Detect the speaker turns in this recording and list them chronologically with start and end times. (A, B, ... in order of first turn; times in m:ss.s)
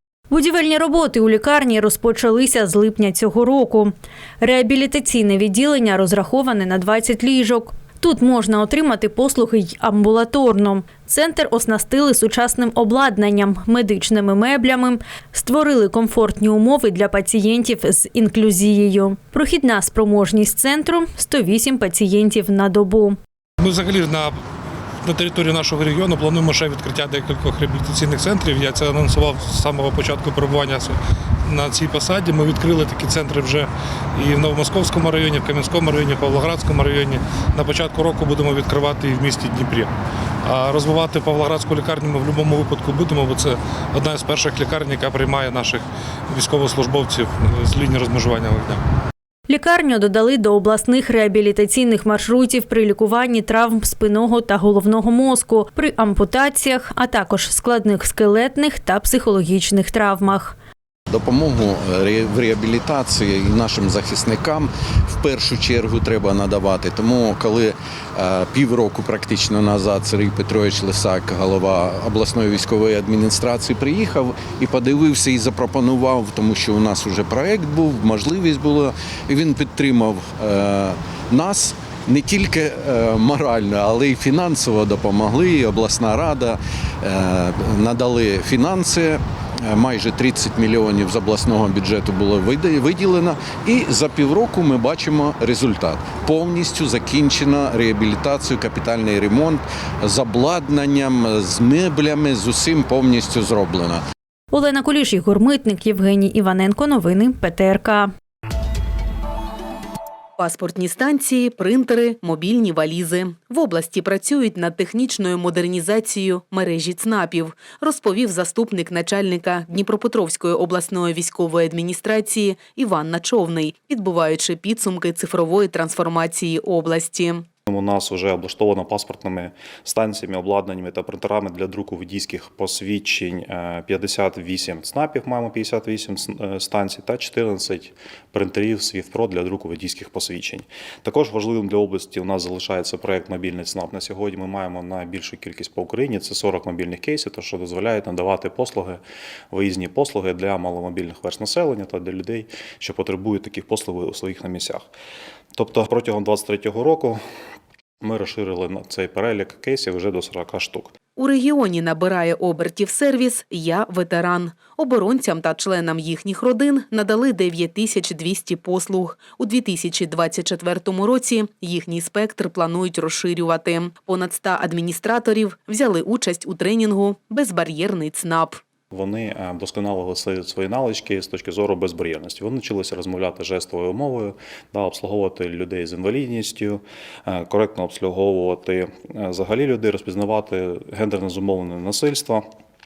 0:00.3-0:23.2 A
0:23.6-0:24.3 B
0:25.0-0:39.9 B
0:40.4-0:48.8 B
0:49.5-1:00.6 A
1:01.1-1:44.0 C
1:44.5-1:48.1 A
1:50.4-2:07.5 D
2:07.7-2:29.0 E
2:29.5-2:34.8 E
2:35.5-2:37.2 E
2:38.0-2:40.9 E
2:41.2-2:58.6 D
2:58.9-3:12.4 E